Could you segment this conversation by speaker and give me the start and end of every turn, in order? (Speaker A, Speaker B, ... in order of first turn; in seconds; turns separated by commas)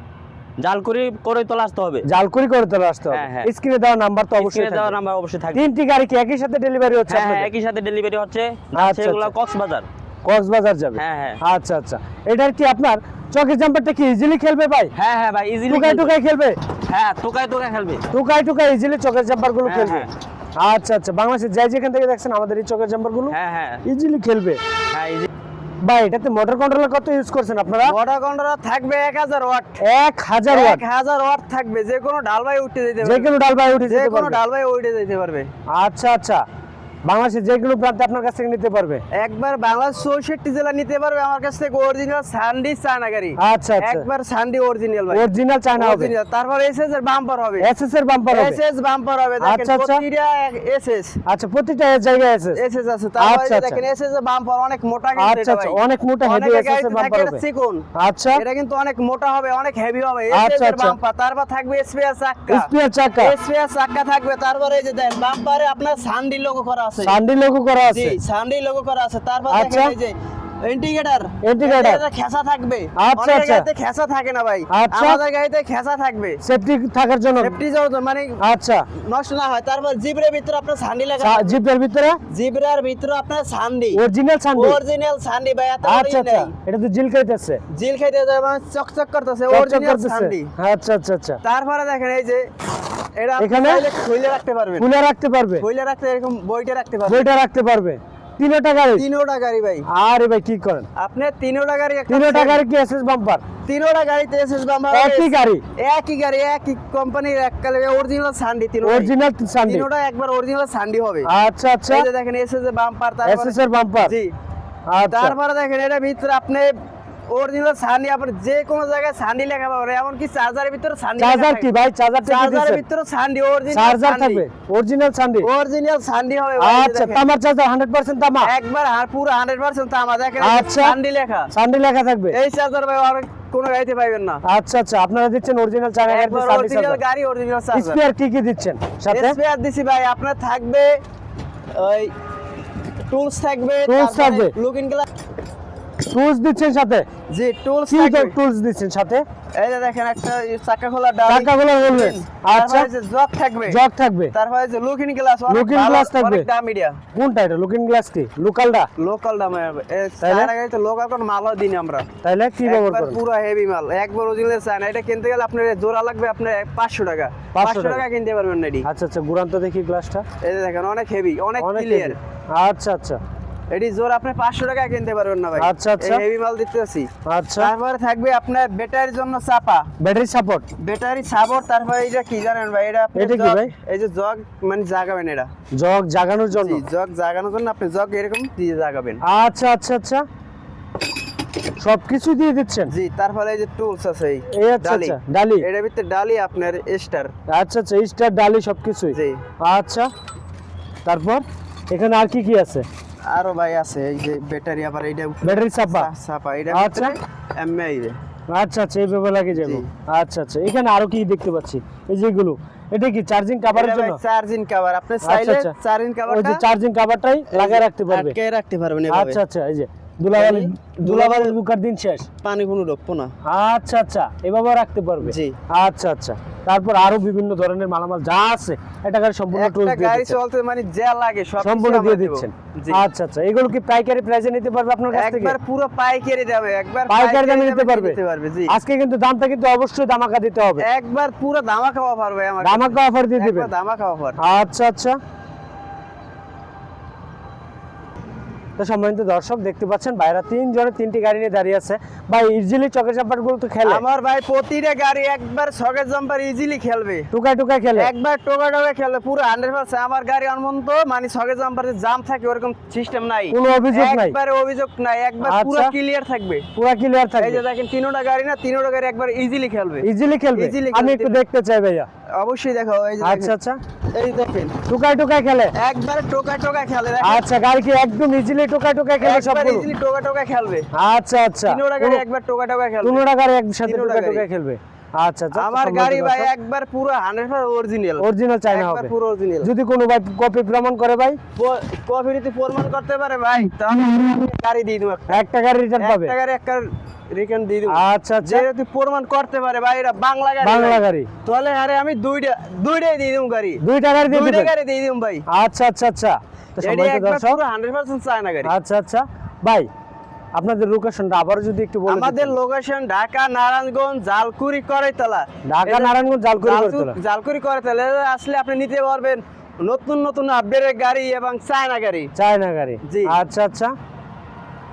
Speaker A: 0.6-2.0, Speaker B: 2.0-4.9, Speaker A: 3.1-3.5, Speaker A: 4.3-5.6, Speaker B: 5.5-7.5, Speaker A: 7.1-9.9, Speaker B: 8.8-9.3, Speaker B: 10.2-14.9, Speaker A: 10.9-11.4, Speaker A: 14.9-16.2, Speaker B: 15.7-16.6, Speaker A: 16.9-18.1, Speaker B: 18.1-24.6, Speaker A: 19.6-20.1, Speaker A: 23.3-23.8, Speaker A: 24.9-25.3, Speaker B: 25.8-27.9, Speaker C: 27.8-29.8, Speaker B: 29.8-30.8, Speaker C: 30.5-33.3, Speaker B: 33.0-34.4, Speaker C: 33.9-35.5, Speaker B: 35.7-36.4, Speaker B: 37.0-39.0, Speaker C: 39.1-47.7, Speaker B: 43.4-44.0, Speaker B: 45.1-46.1, Speaker B: 47.6-48.6, Speaker C: 48.3-51.2, Speaker B: 49.4-50.0, Speaker B: 51.2-52.6, Speaker C: 52.5-67.2, Speaker B: 53.2-53.8, Speaker B: 55.2-57.4, Speaker B: 58.0-58.4, Speaker B: 60.3-60.9, Speaker B: 62.5-63.3, Speaker B: 67.0-68.2, Speaker C: 67.9-76.4, Speaker B: 69.5-69.9, Speaker B: 71.4-72.0, Speaker B: 73.0-73.7, Speaker B: 74.7-75.2, Speaker B: 76.4-77.5, Speaker C: 77.4-78.4, Speaker B: 78.4-78.8, Speaker C: 79.0-81.6, Speaker B: 81.2-82.2, Speaker C: 82.3-84.0, Speaker B: 83.9-84.8, Speaker C: 84.5-86.5, Speaker B: 85.8-87.6, Speaker C: 87.7-90.5, Speaker B: 89.5-91.4, Speaker C: 91.4-92.4, Speaker C: 93.2-94.9, Speaker B: 93.4-93.8, Speaker B: 94.8-95.7, Speaker C: 95.6-97.3, Speaker B: 97.1-99.0, Speaker C: 98.9-99.8, Speaker B: 99.9-100.9, Speaker C: 101.0-102.6, Speaker B: 102.1-103.4, Speaker C: 103.7-111.3, Speaker B: 104.9-105.6, Speaker B: 108.8-109.9, Speaker B: 111.3-112.1, Speaker C: 111.9-114.3, Speaker B: 113.2-114.1, Speaker B: 114.9-115.3, Speaker C: 115.1-116.7, Speaker C: 117.3-121.7, Speaker B: 121.2-122.8, Speaker C: 122.2-124.4, Speaker B: 123.7-125.5, Speaker C: 125.4-127.2, Speaker B: 126.6-128.5, Speaker C: 128.4-131.5, Speaker B: 130.4-130.9, Speaker B: 131.5-132.4, Speaker C: 132.3-134.4, Speaker B: 134.4-137.0, Speaker C: 136.1-138.0, Speaker B: 137.7-139.4, Speaker C: 139.1-140.9, Speaker C: 141.7-142.1, Speaker C: 143.1-145.1, Speaker B: 143.9-144.5, Speaker B: 146.0-147.1, Speaker C: 147.3-148.3, Speaker B: 147.9-149.2, Speaker C: 149.6-153.8, Speaker B: 151.3-152.9, Speaker B: 153.7-154.3, Speaker C: 154.3-157.0, Speaker B: 155.5-156.4, Speaker B: 157.1-158.9, Speaker C: 159.0-162.1, Speaker B: 160.2-160.5, Speaker B: 162.2-163.2, Speaker C: 162.6-168.8, Speaker B: 167.5-168.0, Speaker B: 168.8-170.2, Speaker C: 170.4-172.2, Speaker B: 171.6-173.2, Speaker C: 173.7-179.9, Speaker B: 175.6-176.2, Speaker B: 177.2-177.7, Speaker B: 180.0-180.7, Speaker C: 180.8-185.5, Speaker B: 183.1-183.7, Speaker B: 185.7-186.8, Speaker C: 186.5-189.2, Speaker B: 189.2-190.2, Speaker B: 191.8-192.9, Speaker C: 192.9-197.3, Speaker B: 194.5-195.7, Speaker B: 197.5-200.1, Speaker C: 199.1-199.4, Speaker B: 201.0-202.8, Speaker C: 203.3-208.1, Speaker B: 205.4-206.1, Speaker B: 206.7-207.1, Speaker B: 208.5-214.2, Speaker C: 209.5-209.9, Speaker C: 213.7-216.6, Speaker B: 215.2-215.7, Speaker B: 216.3-218.3, Speaker C: 217.5-219.4, Speaker B: 219.1-222.3, Speaker C: 220.3-221.6, Speaker C: 222.4-223.3, Speaker B: 223.4-230.3, Speaker C: 225.2-225.6, Speaker C: 229.5-233.0, Speaker B: 231.6-235.6, Speaker C: 235.1-238.7, Speaker B: 237.1-238.2, Speaker B: 238.7-240.8, Speaker C: 240.8-244.4, Speaker B: 242.6-243.7, Speaker B: 244.4-245.2, Speaker B: 248.8-254.0, Speaker C: 253.8-257.3, Speaker B: 257.3-258.1, Speaker C: 257.9-266.7, Speaker B: 263.5-264.3, Speaker B: 265.4-265.9, Speaker B: 266.8-267.6, Speaker C: 267.4-271.4, Speaker B: 270.0-272.1, Speaker C: 272.4-273.5, Speaker B: 273.2-273.8, Speaker C: 274.1-274.8, Speaker B: 274.9-275.7, Speaker C: 275.8-277.4, Speaker B: 277.2-279.9, Speaker C: 279.2-280.9, Speaker B: 280.9-282.2, Speaker C: 281.6-283.2, Speaker B: 283.0-286.5, Speaker C: 283.8-284.5, Speaker C: 285.5-289.7, Speaker B: 288.2-289.1, Speaker B: 289.6-291.4, Speaker C: 291.6-295.4, Speaker B: 295.3-296.3, Speaker C: 296.0-305.4, Speaker B: 297.9-298.6, Speaker B: 300.6-301.3, Speaker B: 303.8-304.7, Speaker B: 305.5-307.6, Speaker C: 306.8-308.7, Speaker B: 308.6-309.9, Speaker B: 310.5-312.5, Speaker C: 312.1-322.3, Speaker B: 315.7-317.1, Speaker B: 322.3-323.9, Speaker C: 323.1-323.4